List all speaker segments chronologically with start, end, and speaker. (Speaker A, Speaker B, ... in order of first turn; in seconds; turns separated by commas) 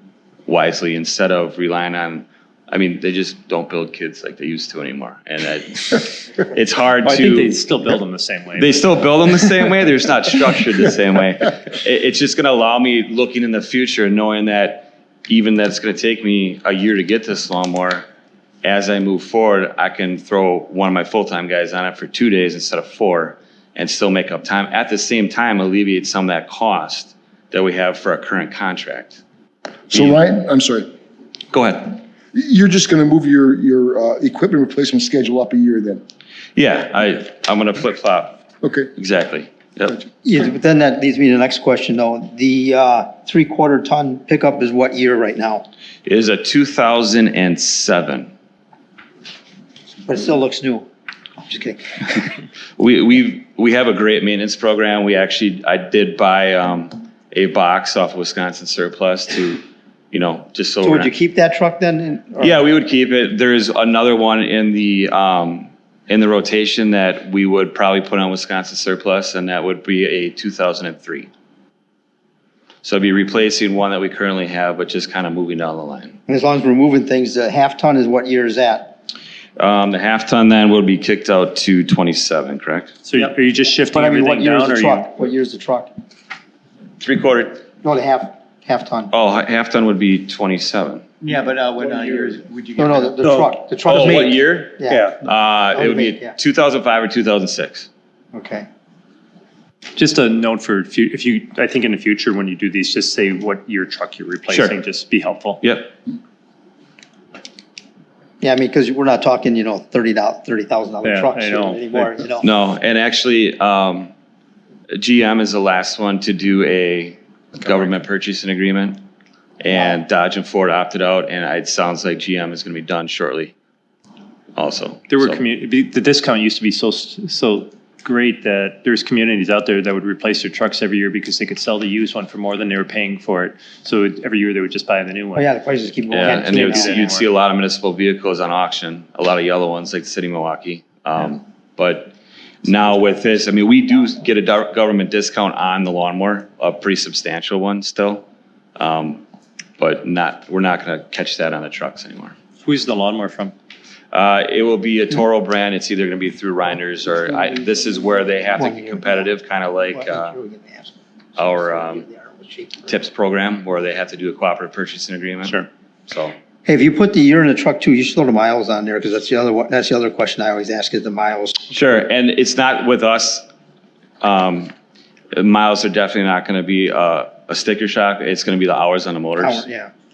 Speaker A: 0.5-7.5, Speaker B: 7.0-8.8, Speaker A: 8.6-18.1, Speaker A: 18.6-29.2, Speaker C: 29.9-30.9, Speaker A: 29.9-30.2, Speaker A: 31.5-32.0, Speaker C: 32.3-36.0, Speaker A: 36.5-38.4, Speaker C: 38.6-38.9, Speaker A: 39.0-40.0, Speaker D: 40.2-45.6, Speaker A: 46.0-48.3, Speaker D: 50.0-50.9, Speaker D: 51.4-52.1, Speaker A: 52.8-61.1, Speaker D: 60.8-62.5, Speaker A: 62.4-71.3, Speaker A: 72.8-76.2, Speaker D: 76.3-79.0, Speaker A: 79.6-82.9, Speaker B: 83.0-85.1, Speaker D: 83.9-85.9, Speaker A: 87.0-87.6, Speaker D: 87.8-89.1, Speaker A: 89.1-91.0, Speaker E: 91.2-93.4, Speaker D: 92.8-95.2, Speaker A: 93.8-97.9, Speaker B: 94.9-95.1, Speaker D: 95.7-96.3, Speaker D: 98.3-98.7, Speaker B: 100.0-105.6, Speaker A: 104.5-104.7, Speaker A: 105.6-105.9, Speaker D: 108.4-112.5, Speaker B: 111.0-112.2, Speaker A: 112.4-114.1, Speaker A: 114.9-119.0, Speaker A: 119.6-123.5, Speaker A: 124.5-125.4, Speaker B: 125.1-135.5, Speaker D: 135.3-137.0, Speaker A: 136.1-148.2, Speaker B: 136.2-137.3, Speaker A: 148.8-149.2, Speaker A: 149.8-152.3, Speaker B: 152.6-153.5, Speaker A: 154.1-160.3, Speaker D: 158.5-159.3, Speaker D: 159.9-162.9, Speaker A: 161.3-162.1, Speaker A: 162.9-166.3, Speaker D: 166.6-171.7, Speaker A: 171.7-173.5, Speaker A: 174.2-174.7, Speaker A: 175.3-179.6, Speaker D: 179.4-179.9